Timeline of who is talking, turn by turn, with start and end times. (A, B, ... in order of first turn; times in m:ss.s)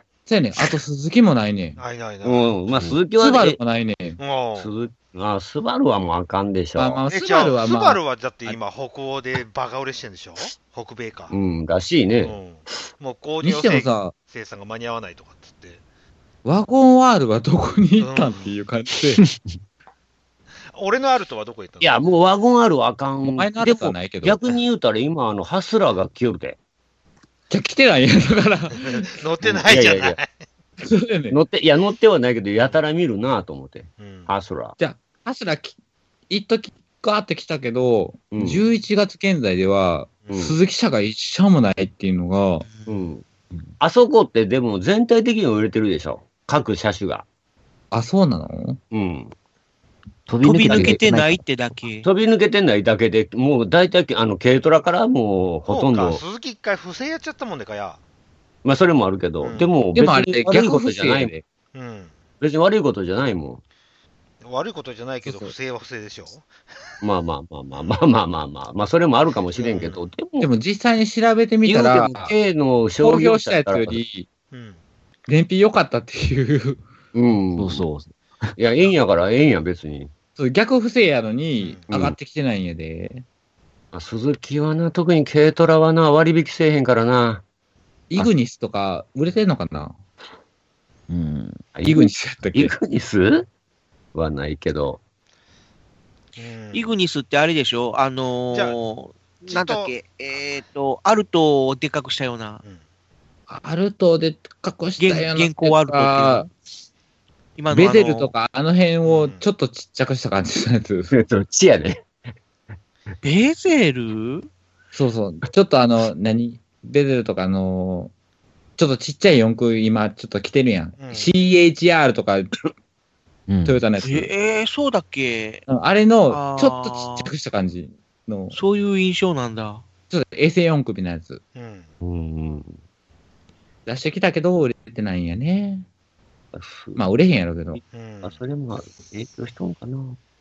0:00.2-0:01.8 A
0:01.8-0:02.6 B
0:02.2-0:03.6 C
0:03.1-0:04.2 A
0:04.2-0:04.7 B
0:04.6-0:07.0 C
0:06.8-0:08.6 A
0:07.1-0:11.3 B
0:11.3-0:12.4 C
0:12.2-0:15.8 B
0:13.4-0:14.1 A
0:16.4-0:19.2 A
0:18.0-0:18.5 B
0:20.7-0:22.0 B
0:21.8-0:26.6 C
0:23.2-0:24.4 A
0:27.5-0:29.2 A
0:28.8-0:30.3 B
0:29.4-0:30.2 C
0:30.8-0:31.4 A
0:31.3-0:34.7 C
0:34.0-0:34.3 B
0:34.8-0:35.7 A
0:36.3-0:42.6 A
0:38.3-0:38.6 C
0:40.3-0:40.6 C
0:42.6-0:43.0 D
0:42.9-0:43.2 C
0:43.8-0:47.2 C
0:47.9-0:48.8 A
0:48.9-0:49.3 C
0:50.3-0:51.4 E
0:50.4-0:52.1 D
0:50.6-0:51.0 C
0:52.0-0:56.2 C
0:55.7-0:58.0 B
0:58.6-1:01.3 C
0:59.4-0:59.7 B
0:59.9-1:01.4 A
1:01.7-1:02.1 B
1:02.4-1:03.6 C
1:04.4-1:06.5 B
1:05.2-1:05.5 A
1:07.0-1:10.5 C
1:09.5-1:10.0 B
1:10.4-1:12.4 A
1:11.6-1:14.0 C
1:13.0-1:14.3 A
1:14.5-1:14.8 B
1:15.3-1:16.8 A
1:17.1-1:17.8 C
1:17.6-1:18.5 E
1:18.6-1:20.1 C
1:20.4-1:23.2 A
1:21.6-1:21.8 B
1:21.9-1:22.2 C
1:23.9-1:27.4 C
1:28.1-1:30.0 A
1:31.1-1:31.6 E
1:31.7-1:33.5 C
1:31.8-1:32.7 A
1:34.1-1:35.0 C
1:36.4-1:36.8 B
1:36.7-1:42.6 D
1:38.5-1:38.8 B
1:39.5-1:39.9 B
1:43.5-1:46.5 A
1:45.0-1:46.5 D
1:47.6-1:48.3 D
1:47.7-1:51.1 A
1:49.0-1:49.4 B
1:51.1-1:52.0 C
1:53.2-1:54.5 D
1:54.9-1:58.1 A
1:58.8-2:02.6 A
2:01.0-2:01.3 B
2:03.5-2:03.8 E
2:03.6-2:04.3 A
2:04.0-2:05.7 D
2:05.7-2:08.6 A
2:06.3-2:07.3 D
2:08.5-2:09.8 D
2:10.1-2:11.4 A
2:11.5-2:11.9 B
2:12.0-2:12.8 C
2:13.8-2:15.8 A
2:16.5-2:17.0 C
2:17.0-2:17.8 A
2:17.7-2:20.2 C
2:17.9-2:18.4 B